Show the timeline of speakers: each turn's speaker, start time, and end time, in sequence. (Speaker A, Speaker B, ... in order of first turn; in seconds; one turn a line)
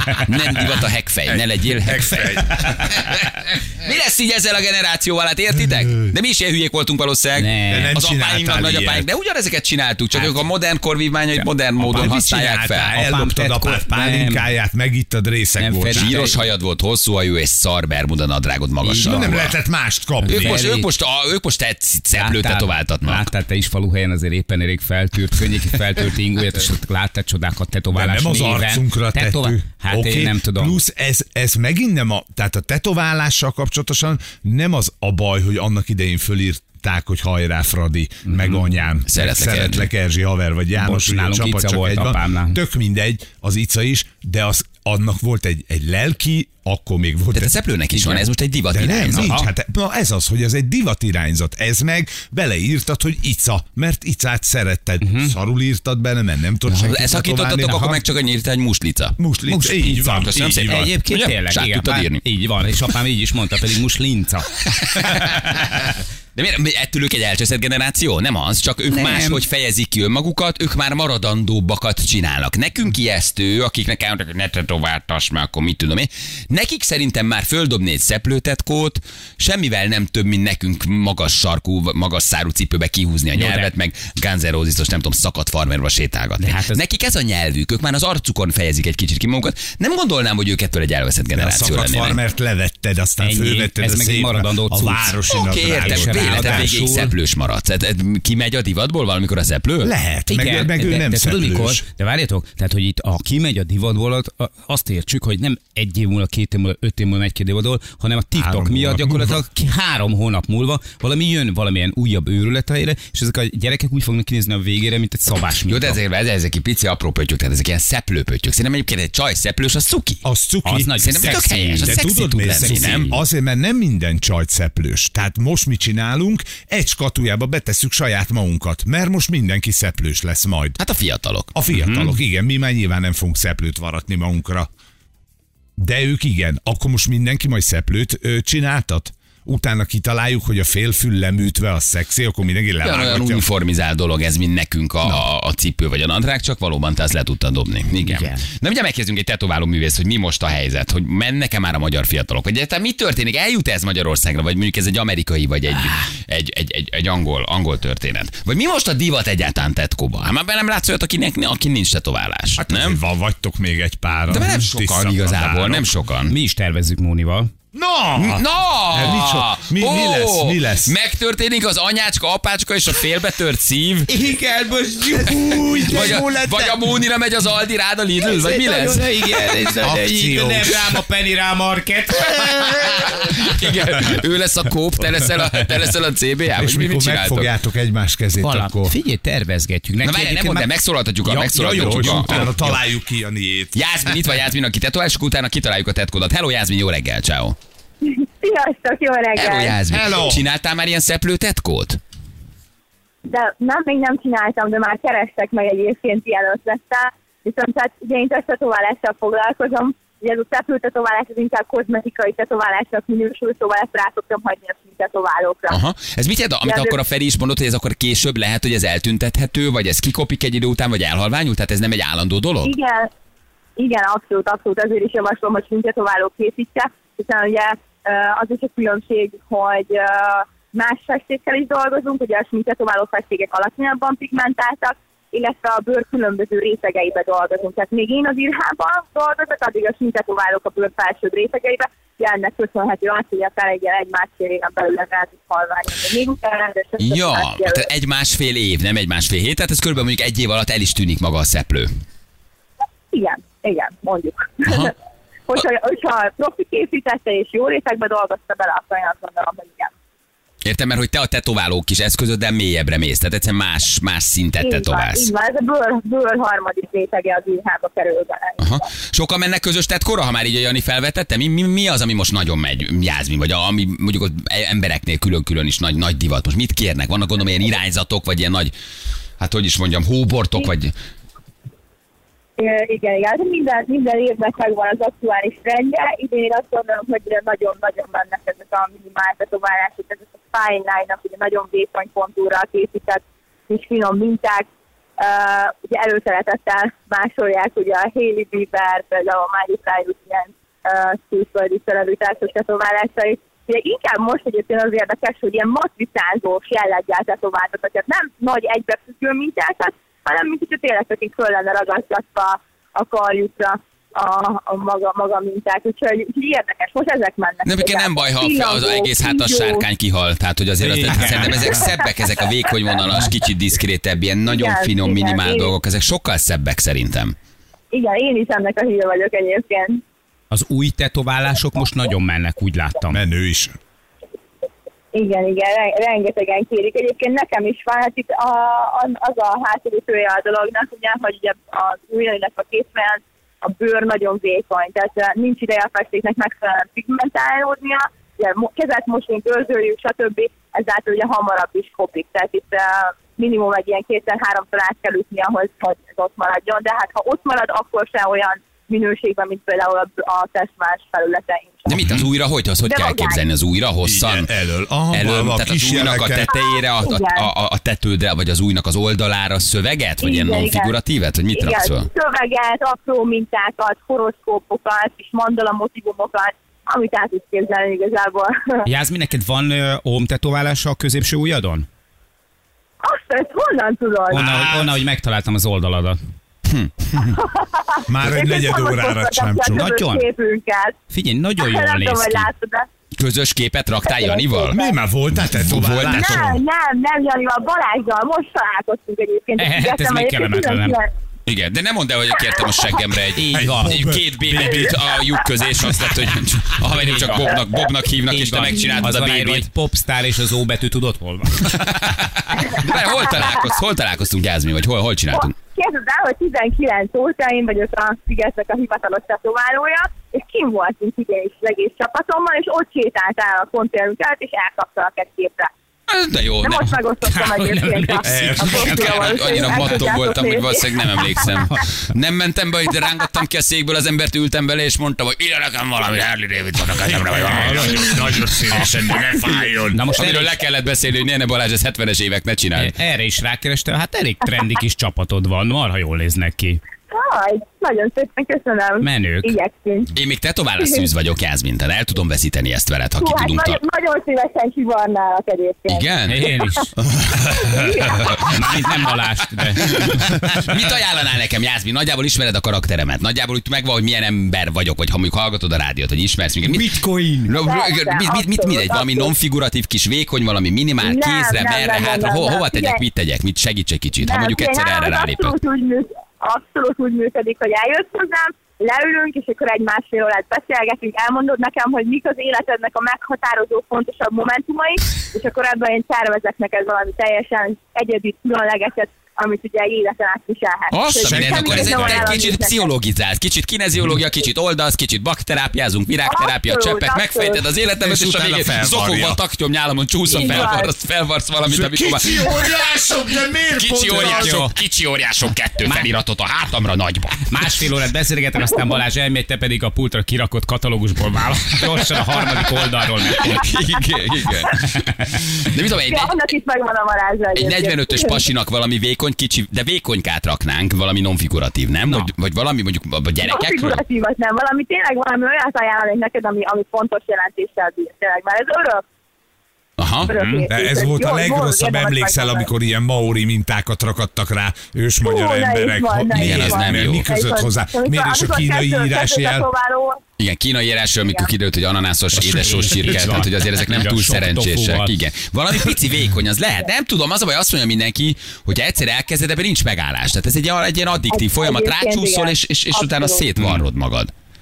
Speaker A: 0.2-13.1
Speaker B: 1.3-3.2
Speaker C: 7.4-8.0
Speaker B: 7.7-9.1
Speaker C: 10.1-10.5
Speaker C: 11.3-12.2
Speaker B: 11.8-16.2
Speaker C: 12.9-14.5
Speaker C: 15.6-16.5
Speaker A: 15.9-19.6
Speaker C: 18.8-19.4
Speaker B: 19.0-20.6
Speaker C: 20.2-20.9
Speaker A: 20.3-23.3
Speaker C: 22.1-30.8
Speaker B: 27.9-57.9
Speaker C: 38.3-38.8
Speaker A: 39.1-39.9
Speaker C: 40.8-42.6
Speaker A: 47.3-49.4
Speaker C: 49.1-49.5
Speaker C: 55.0-55.4
Speaker A: 56.7-59.2
Speaker C: 57.6-58.0
Speaker B: 59.2-60.9
Speaker C: 59.5-64.5
Speaker A: 60.0-62.2
Speaker A: 64.7-92.2
Speaker C: 68.9-69.4
Speaker C: 83.3-83.7
Speaker C: 86.4-86.8
Speaker B: 91.3-96.9
Speaker C: 93.2-97.1
Speaker A: 95.3-99.9
Speaker B: 99.8-101.8
Speaker C: 100.3-116.0
Speaker B: 108.3-109.4
Speaker A: 115.7-120.2
Speaker B: 120.2-130.8
Speaker C: 120.6-123.0
Speaker A: 121.0-123.2
Speaker A: 130.8-131.5
Speaker B: 131.5-134.7
Speaker C: 131.7-132.2
Speaker B: 135.8-143.4
Speaker A: 142.8-163.0
Speaker C: 148.0-148.5
Speaker B: 162.6-165.9
Speaker A: 164.3-166.3
Speaker C: 166.3-167.5
Speaker B: 167.7-170.9
Speaker A: 168.2-174.1
Speaker C: 174.1-176.3
Speaker B: 175.1-176.8
Speaker A: 175.9-179.1
Speaker C: 178.2-183.1
Speaker B: 179.8-180.9
Speaker A: 182.6-187.5
Speaker B: 186.6-188.9
Speaker C: 188.4-190.7
Speaker A: 190.0-192.6
Speaker B: 191.3-193.8
Speaker C: 191.7-192.8
Speaker A: 193.7-197.6
Speaker D: 198.0-199.8
Speaker A: 199.3-202.0
Speaker B: 199.9-200.4
Speaker D: 203.3-215.8
Speaker A: 215.7-222.7
Speaker D: 216.6-217.0
Speaker D: 222.6-223.1
Speaker D: 223.8-247.9
Speaker A: 247.0-251.9
Speaker D: 253.1-254.9
Speaker A: 254.7-254.9
Speaker D: 255.5-259.9
Speaker A: 260.6-265.3
Speaker D: 264.6-268.9
Speaker A: 268.6-278.7
Speaker A: 279.4-280.9
Speaker D: 282.6-294.7
Speaker D: 295.2-319.9
Speaker A: 317.6-327.4
Speaker C: 320.8-321.9
Speaker D: 324.5-325.7
Speaker D: 327.9-330.0
Speaker C: 330.5-333.2
Speaker B: 333.1-333.8
Speaker D: 335.1-362.1
Speaker A: 361.9-364.5
Speaker D: 362.8-363.4
Speaker B: 364.0-366.5
Speaker A: 365.1-372.1
Speaker D: 366.5-367.5
Speaker D: 370.2-370.9
Speaker D: 371.5-378.9
Speaker C: 378.9-381.9
Speaker D: 383.0-384.5
Speaker C: 384.3-386.2
Speaker B: 384.3-385.0
Speaker A: 386.7-387.4
Speaker D: 387.4-391.0
Speaker B: 388.1-389.9
Speaker C: 389.7-390.3
Speaker C: 391.1-392.5
Speaker D: 391.6-392.9
Speaker A: 393.2-394.8
Speaker D: 394.1-394.9
Speaker B: 394.7-396.6
Speaker A: 395.6-396.5
Speaker D: 396.1-401.1
Speaker C: 399.6-401.0
Speaker A: 401.5-409.7
Speaker C: 403.4-404.0
Speaker B: 403.6-405.5
Speaker C: 406.9-407.6
Speaker C: 408.3-411.7
Speaker A: 411.6-415.6
Speaker D: 413.0-413.5
Speaker D: 415.3-425.7
Speaker A: 426.1-427.0
Speaker D: 426.6-431.4
Speaker C: 427.2-429.8
Speaker B: 428.2-430.1
Speaker A: 428.8-439.2
Speaker C: 431.6-431.9
Speaker B: 437.1-440.0
Speaker C: 437.4-438.2
Speaker C: 439.5-440.6
Speaker A: 440.1-442.9
Speaker C: 442.8-446.8
Speaker D: 447.1-450.1
Speaker C: 449.0-449.6
Speaker A: 450.1-453.8
Speaker D: 450.8-451.1
Speaker D: 453.2-456.8
Speaker A: 455.9-456.5
Speaker C: 456.3-456.9
Speaker A: 457.3-458.9
Speaker D: 457.4-458.9
Speaker C: 458.2-460.5
Speaker A: 459.8-475.6
Speaker C: 466.6-467.5
Speaker D: 467.6-469.3
Speaker D: 471.0-473.0
Speaker D: 474.2-492.9
Speaker A: 490.9-502.7
Speaker B: 491.2-492.4
Speaker D: 496.3-497.7
Speaker B: 498.0-499.4
Speaker D: 500.3-500.9
Speaker B: 500.4-500.8
Speaker B: 501.7-504.7
Speaker A: 503.8-507.6
Speaker C: 504.1-504.7
Speaker C: 505.8-506.1
Speaker C: 507.5-513.7
Speaker A: 513.3-516.4
Speaker C: 514.9-515.4
Speaker D: 516.0-518.5
Speaker A: 517.5-524.0
Speaker C: 522.1-522.3
Speaker D: 523.4-529.0
Speaker A: 530.0-530.4
Speaker D: 530.2-532.7
Speaker C: 530.3-530.7
Speaker B: 530.7-539.7
Speaker D: 535.2-540.2
Speaker A: 536.3-537.3
Speaker A: 540.4-554.3
Speaker D: 541.1-541.5
Speaker C: 542.3-545.2
Speaker D: 551.3-553.5